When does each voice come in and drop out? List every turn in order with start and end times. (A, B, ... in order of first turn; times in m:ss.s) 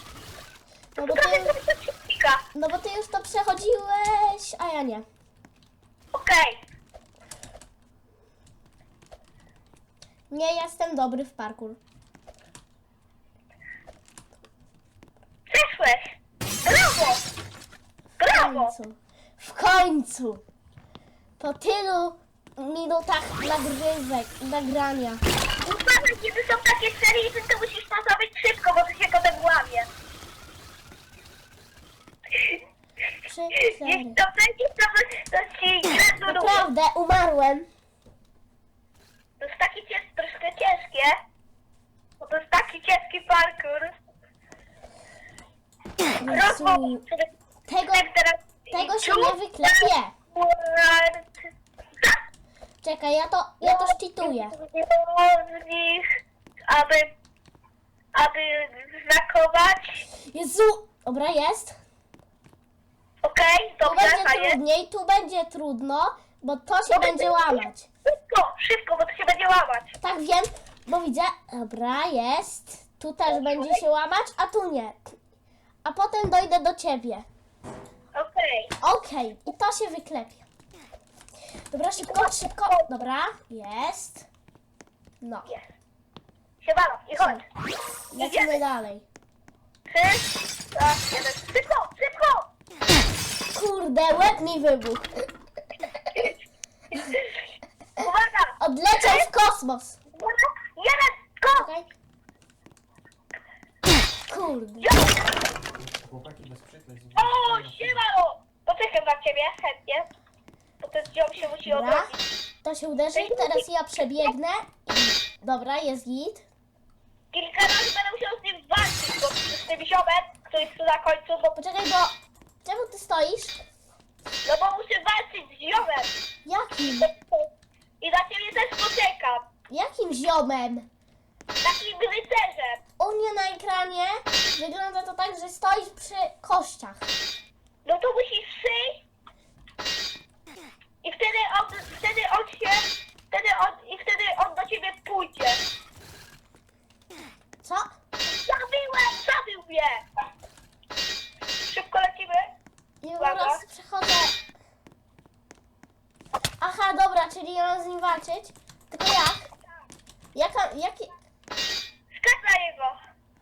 0:01.0-0:01.6 A
0:01.0-0:02.4 B
0:02.5-0:05.0 A
0:06.1-0:06.6 B
0:10.3-0:11.8 A
0:15.5-0:17.2 B
0:18.2-0:18.7 B
0:18.2-0:20.4 A
0:21.4-0:25.2 A
0:25.6-0:29.9 B
0:32.3-0:32.6 B
0:33.2-0:34.2 A
0:33.6-0:36.6 B
0:36.2-0:37.7 A
0:39.4-0:41.2 B
0:42.2-0:43.9 B
0:46.2-0:47.0 A
0:46.3-0:47.3 B
0:47.7-0:48.1 A
0:47.8-0:51.3 B
0:48.7-0:50.1 A
0:52.8-0:54.6 A
0:53.6-0:56.0 B
0:56.7-0:57.2 B
0:58.1-1:00.1 B
1:00.2-1:01.8 A
1:03.2-1:04.6 B
1:03.8-1:07.9 A
1:06.9-1:09.9 B
1:10.0-1:15.1 A
1:13.3-1:13.8 B
1:15.8-1:17.2 A
1:18.1-1:18.7 B
1:18.8-1:20.4 A
1:21.7-1:24.3 A
1:22.0-1:22.9 B
1:25.2-1:25.5 A
1:26.6-1:27.4 B
1:27.2-1:27.4 A
1:28.1-1:29.1 A
1:28.2-1:28.6 B
1:29.9-1:32.5 B
1:33.5-1:35.3 A
1:36.9-1:39.3 B
1:38.6-1:40.0 A
1:40.1-1:41.7 B
1:41.5-1:41.9 A
1:44.3-1:45.0 A
1:44.8-1:45.2 B
1:45.7-1:48.0 C
1:47.2-1:50.1 B
1:50.8-1:52.2 B
1:51.6-1:52.1 A
1:52.6-1:56.4 A
1:53.1-1:53.6 B
1:57.3-2:01.6 B
2:01.6-2:03.6 A
2:04.4-2:06.1 B
2:06.4-2:07.1 A
2:06.9-2:07.5 B
2:08.0-2:09.5 B
2:09.7-2:10.9 A
2:11.6-2:12.8 B
2:13.0-2:17.1 A
2:17.8-2:19.0 B
2:21.0-2:25.6 B
2:27.6-2:27.9 A
2:28.4-2:30.0 B
2:31.6-2:32.5 B
2:33.0-2:34.4 A
2:33.2-2:33.6 B
2:36.6-2:39.5 A
2:40.3-2:41.1 A
2:42.2-2:43.0 B